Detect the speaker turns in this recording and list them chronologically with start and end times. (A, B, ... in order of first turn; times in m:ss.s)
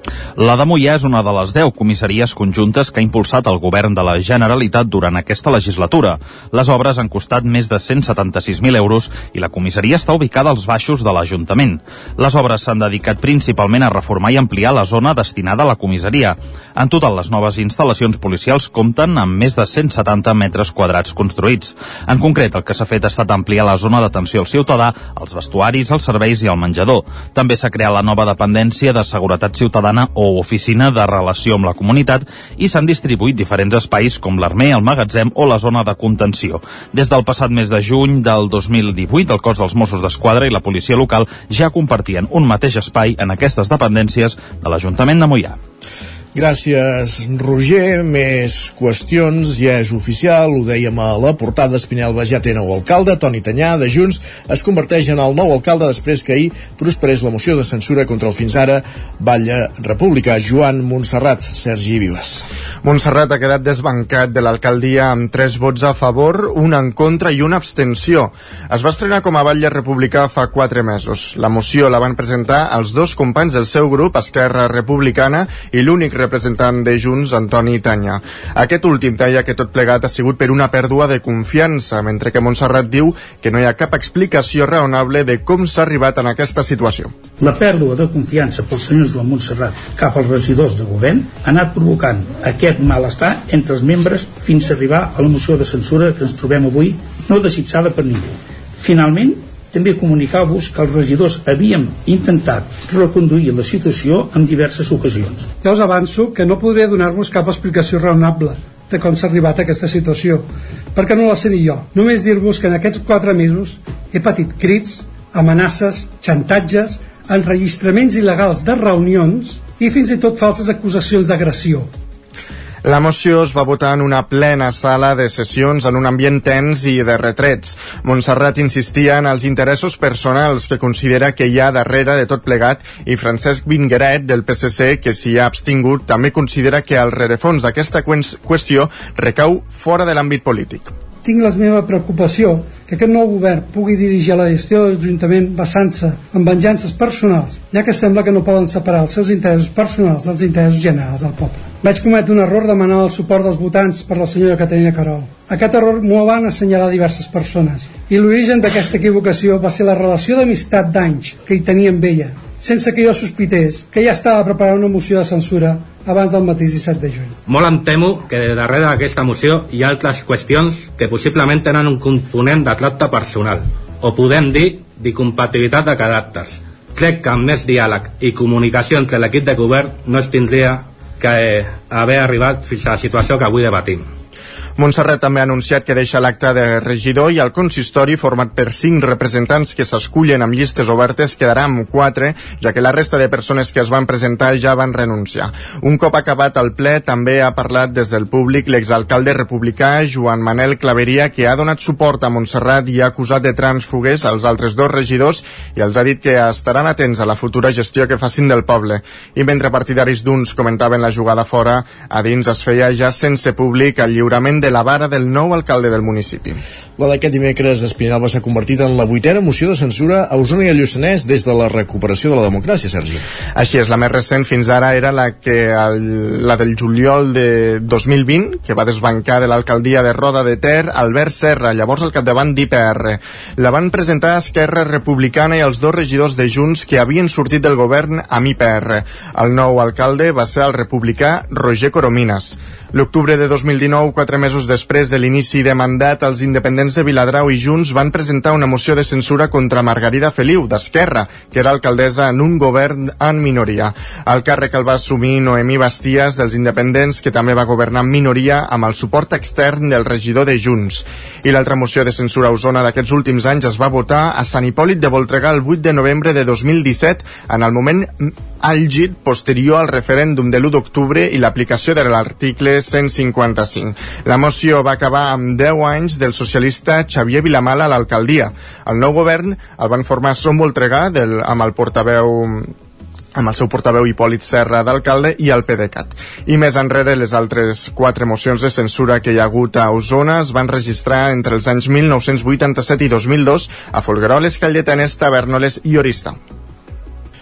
0:00.4-0:45.6 A
0:46.4-1:02.4 B
1:02.8-1:27.1 C
1:27.4-1:45.5 D
1:45.6-2:01.9 E
2:02.8-2:20.9 C
2:21.2-2:47.4 E
2:47.5-3:04.1 F
3:04.8-3:36.6 C
3:37.0-3:43.2 B
3:43.5-4:42.7 C
4:43.4-4:56.4 C